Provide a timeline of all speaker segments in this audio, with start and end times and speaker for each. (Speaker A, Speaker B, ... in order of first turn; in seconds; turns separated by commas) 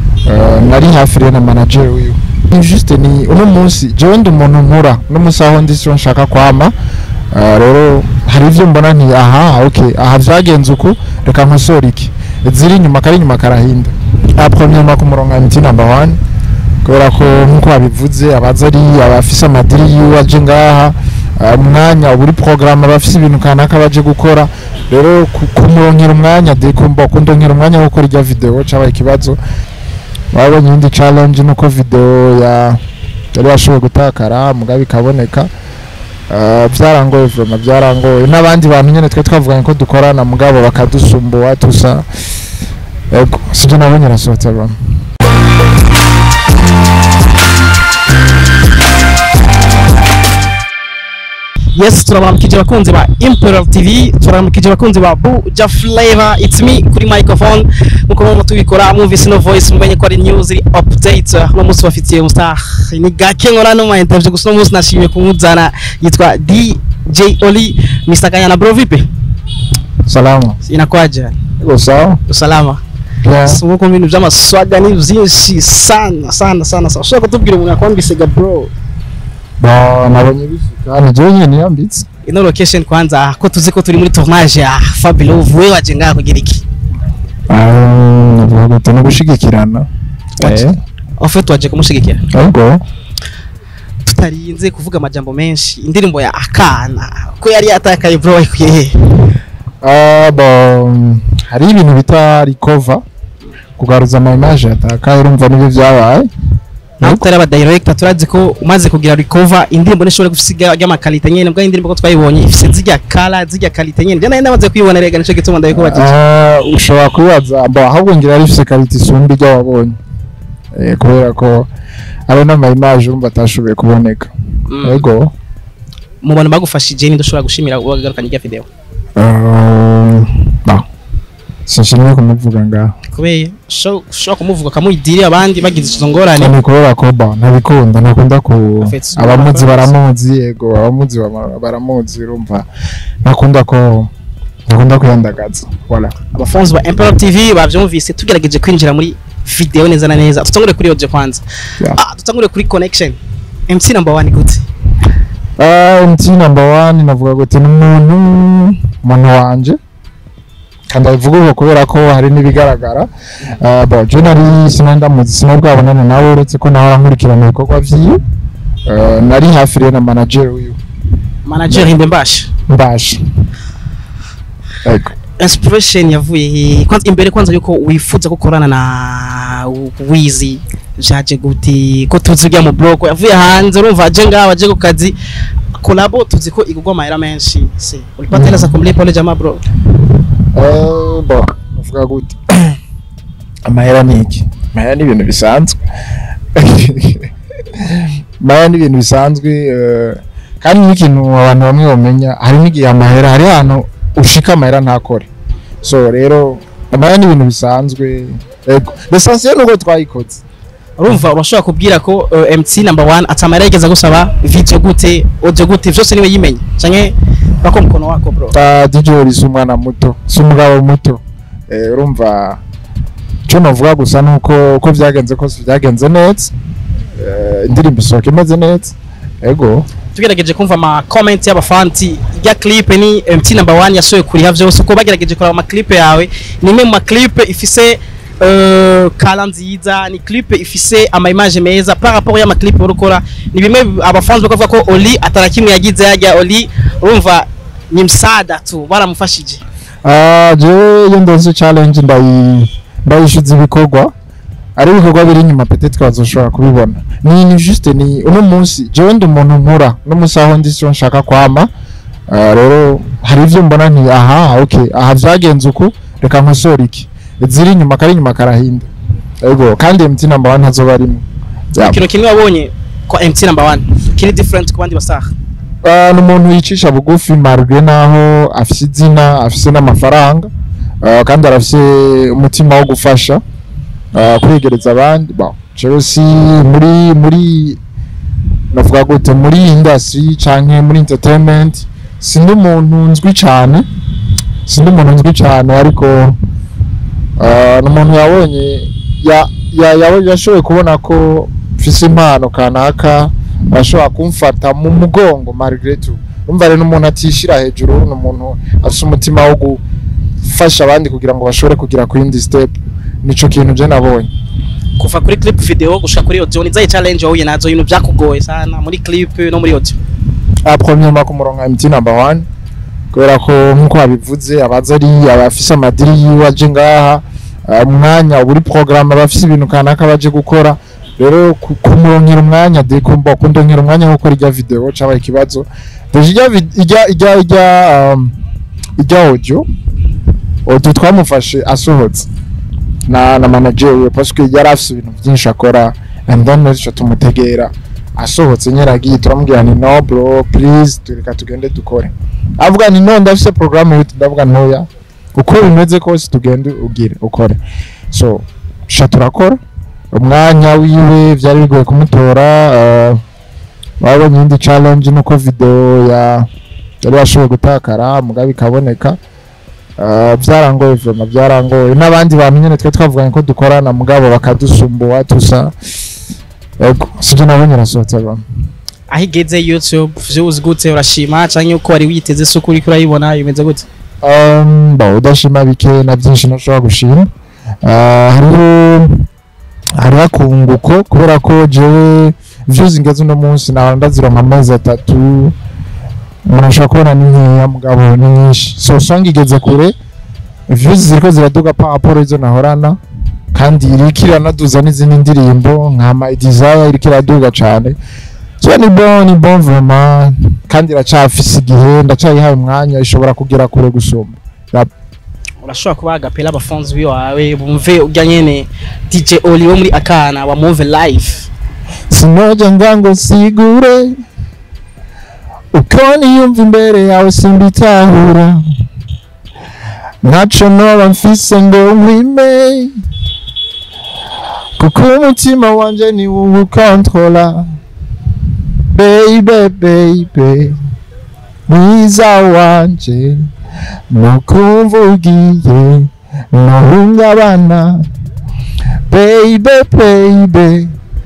Speaker A: 0.3-6.8, Speaker A: 7.3-16.2, Speaker A: 16.8-29.4, Speaker A: 30.3-32.8, Speaker A: 33.3-35.5, Speaker A: 36.3-42.1, Speaker A: 43.1-44.8, Speaker B: 51.8-69.1, Speaker A: 70.1-70.6, Speaker B: 70.6-71.4, Speaker A: 71.6-72.2, Speaker B: 72.3-72.8, Speaker A: 73.2-73.6, Speaker B: 73.5-78.7, Speaker A: 79.6-82.0, Speaker B: 82.2-86.6, Speaker A: 87.5-89.9, Speaker B: 90.4-92.2, Speaker A: 90.4-90.8, Speaker A: 92.3-92.8, Speaker B: 94.0-99.3, Speaker A: 99.8-103.0, Speaker A: 103.8-106.3, Speaker B: 107.0-116.2, Speaker A: 115.7-120.0, Speaker A: 120.8-121.7, Speaker A: 122.3-125.3, Speaker B: 124.7-125.0, Speaker B: 126.2-128.7, Speaker A: 129.2-130.8, Speaker A: 131.7-132.9, Speaker B: 133.1-136.6, Speaker A: 136.3-142.7, Speaker B: 138.8-139.9, Speaker A: 143.2-144.1, Speaker A: 144.7-146.1, Speaker B: 146.3-154.7, Speaker A: 155.6-159.8, Speaker A: 160.9-168.2, Speaker A: 168.9-170.8, Speaker B: 171.4-172.5, Speaker A: 172.7-173.2, Speaker A: 174.8-175.1, Speaker B: 175.4-185.2, Speaker B: 185.8-189.6, Speaker A: 188.3-188.8, Speaker A: 190.5-192.8, Speaker A: 193.7-195.8, Speaker A: 196.6-205.3, Speaker A: 205.8-210.4, Speaker B: 211.0-218.6, Speaker A: 218.5-222.6, Speaker A: 223.5-226.5, Speaker A: 227.2-229.9, Speaker B: 230.1-249.6, Speaker A: 250.0-254.1, Speaker A: 254.8-261.7, Speaker A: 262.3-268.9, Speaker A: 269.4-272.0, Speaker B: 271.8-275.3, Speaker A: 275.8-280.5, Speaker A: 281.0-283.4, Speaker A: 284.1-287.8, Speaker A: 288.7-293.9, Speaker A: 294.7-296.4, Speaker A: 297.4-309.8, Speaker A: 310.4-314.3, Speaker B: 315.0-320.0, Speaker A: 320.6-322.5, Speaker A: 323.1-338.4, Speaker A: 339.0-339.7, Speaker A: 340.7-342.3, Speaker A: 343.1-357.6, Speaker A: 358.1-359.6, Speaker A: 360.1-363.2, Speaker A: 364.0-366.5, Speaker A: 367.0-369.2, Speaker A: 370.0-375.7, Speaker A: 376.8-378.4, Speaker B: 379.1-383.9, Speaker A: 384.2-387.3, Speaker A: 387.8-389.3, Speaker A: 390.0-395.6, Speaker A: 396.5-399.9, Speaker A: 400.7-403.0, Speaker A: 403.5-408.0, Speaker A: 408.6-414.9, Speaker B: 415.6-421.5, Speaker A: 422.1-424.2, Speaker A: 425.7-428.6, Speaker A: 430.2-433.0, Speaker A: 434.8-437.7, Speaker A: 438.9-440.8, Speaker A: 441.7-443.5, Speaker A: 444.1-448.1, Speaker A: 449.1-450.9